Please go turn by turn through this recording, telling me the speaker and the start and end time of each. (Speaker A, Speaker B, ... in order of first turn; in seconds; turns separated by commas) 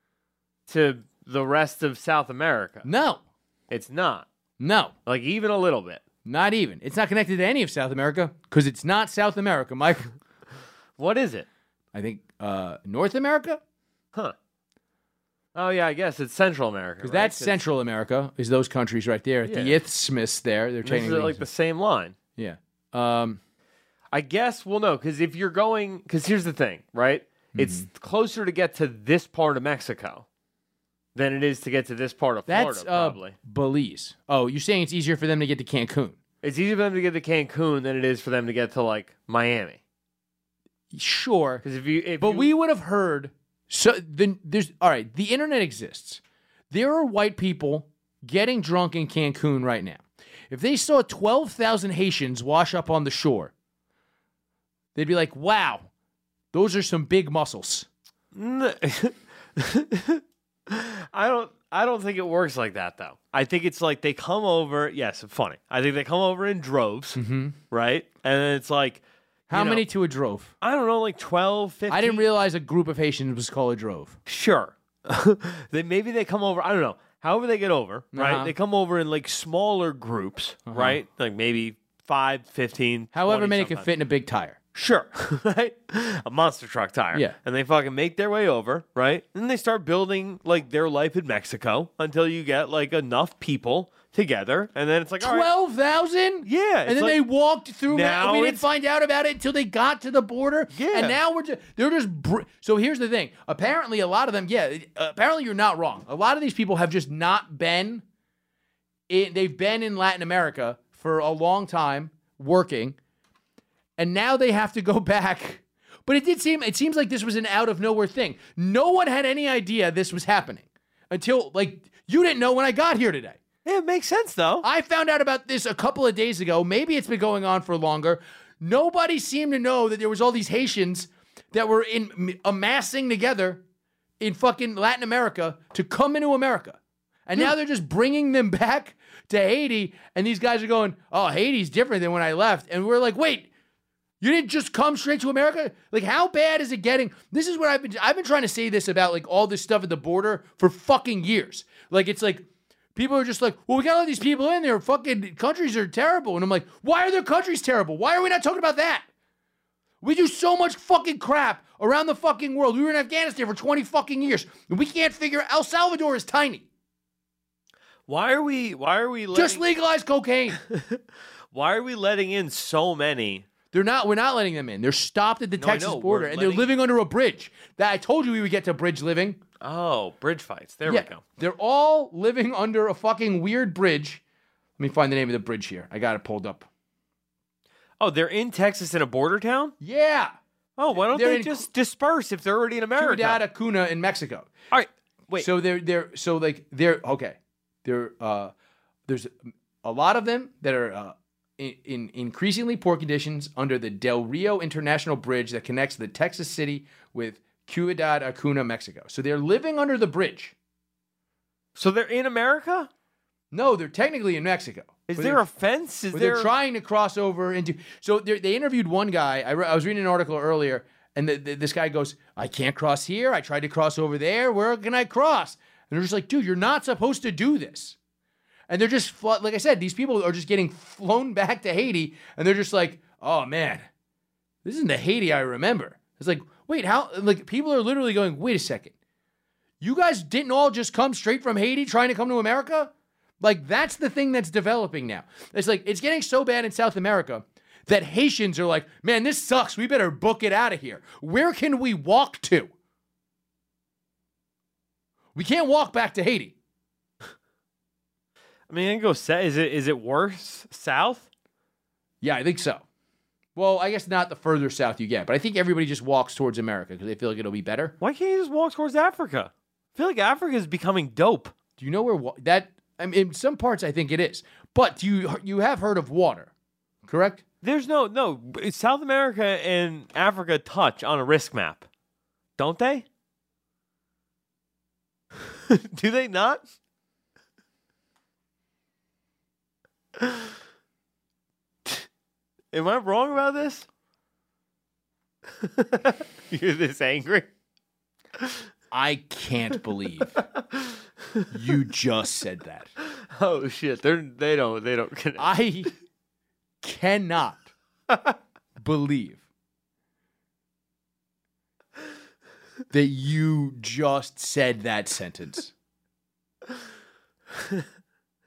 Speaker A: 0.7-2.9, Speaker B: 2.8-3.2, Speaker A: 3.7-4.3, Speaker B: 4.6-4.9, Speaker A: 5.1-6.0, Speaker B: 6.2-10.1, Speaker A: 11.0-11.5, Speaker B: 11.9-13.6, Speaker A: 15.6-17.6, Speaker B: 17.0-21.5, Speaker A: 19.4-19.8, Speaker A: 20.8-22.1, Speaker B: 22.4-23.4, Speaker A: 24.1-30.2, Speaker B: 27.6-27.9, Speaker A: 31.1-33.4, Speaker B: 32.5-36.2, Speaker A: 36.4-39.8, Speaker B: 40.9-41.6, Speaker A: 41.6-42.5, Speaker B: 42.2-53.5, Speaker B: 55.0-55.9, Speaker B: 56.5-57.9, Speaker A: 58.3-67.2, Speaker B: 67.2-67.6, Speaker A: 67.7-69.8, Speaker B: 69.5-70.5, Speaker A: 70.6-72.3, Speaker B: 71.9-74.2, Speaker A: 74.3-83.9, Speaker B: 78.1-78.5, Speaker B: 80.7-81.0, Speaker B: 83.1-84.6, Speaker A: 84.7-95.5, Speaker B: 95.2-108.0, Speaker A: 96.5-97.2, Speaker A: 97.9-98.7, Speaker A: 100.7-101.2, Speaker B: 109.1-113.0, Speaker B: 114.0-123.4, Speaker A: 123.6-124.6, Speaker B: 124.6-133.6, Speaker B: 134.2-143.5, Speaker B: 144.2-152.4, Speaker B: 153.0-159.1, Speaker B: 160.0-166.7, Speaker A: 168.1-169.6, Speaker B: 169.3-170.6, Speaker A: 170.7-171.0, Speaker A: 171.5-173.5, Speaker B: 173.7-179.4, Speaker A: 175.6-176.7, Speaker A: 179.6-181.2, Speaker B: 180.9-184.2, Speaker B: 184.8-186.7, Speaker A: 188.0-189.7, Speaker B: 189.8-190.3, Speaker A: 190.8-193.4, Speaker B: 191.0-191.7, Speaker B: 193.0-194.5, Speaker A: 194.7-195.5, Speaker B: 195.4-198.5, Speaker B: 199.1-210.6, Speaker A: 211.8-212.9, Speaker B: 213.5-215.4, Speaker A: 215.1-216.5, Speaker B: 216.1-228.0, Speaker B: 228.7-233.9, Speaker B: 234.6-238.9, Speaker B: 239.8-252.7, Speaker B: 255.3-256.6, Speaker A: 258.7-261.3, Speaker B: 262.2-262.8, Speaker B: 263.6-267.9, Speaker A: 268.0-271.5, Speaker B: 271.8-276.5, Speaker B: 277.1-277.4, Speaker A: 277.6-281.9, Speaker A: 282.6-283.1, Speaker A: 285.7-286.6, Speaker A: 290.2-290.5, Speaker A: 292.7-293.9, Speaker A: 295.6-297.5, Speaker B: 298.9-300.4, Speaker B: 301.5-302.9, Speaker A: 303.3-305.5, Speaker B: 305.4-305.9, Speaker B: 306.8-307.7, Speaker B: 308.8-309.4, Speaker B: 312.9-315.7